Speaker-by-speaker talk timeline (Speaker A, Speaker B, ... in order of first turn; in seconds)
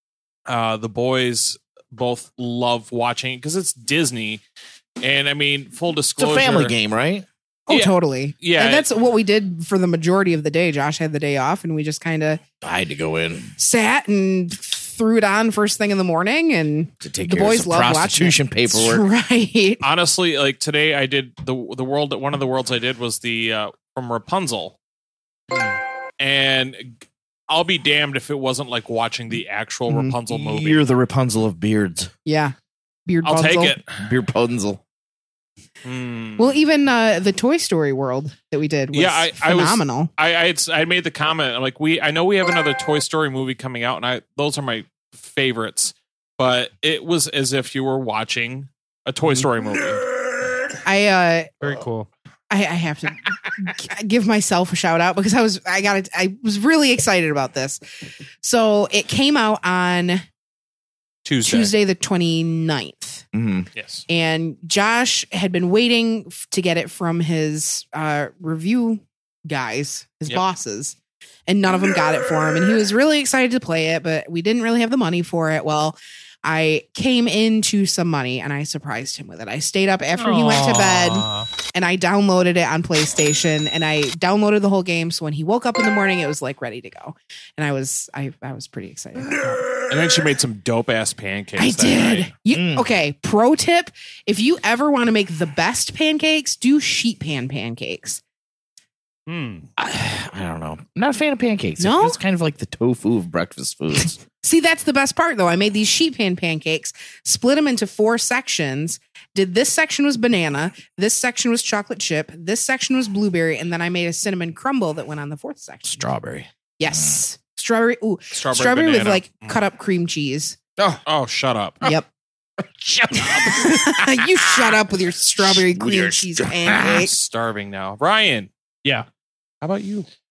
Speaker A: 0.5-4.4, 5.0-6.8, 7.7-8.9, 19.8-24.8, 26.2-27.0, 27.5-30.8, 33.2-34.1, 35.8-36.6, 38.9-50.0, 61.2-61.7, 63.8-64.0, 89.9-92.3, 118.3-119.6, 121.1-121.8, 126.7-128.5, 129.6-130.1
Speaker B: 6.2-7.3, 12.6-13.6, 17.0-19.1, 30.3-32.1, 34.0-34.8, 63.3-63.7, 92.5-92.9, 99.8-104.2, 115.9-117.2, 122.8-124.8, 125.4-127.1
Speaker C: 7.7-12.4, 13.6-19.8, 32.3-32.5, 33.1-33.8, 36.4-40.1, 50.8-51.5, 52.5-57.8, 58.4-60.2, 61.5-63.2, 64.1-71.0, 71.5-89.7, 91.6-98.2, 101.8-102.2, 104.4-116.0, 116.8-120.6, 123.2-127.1
Speaker D: 51.6-52.1, 80.2-81.5, 99.3-99.7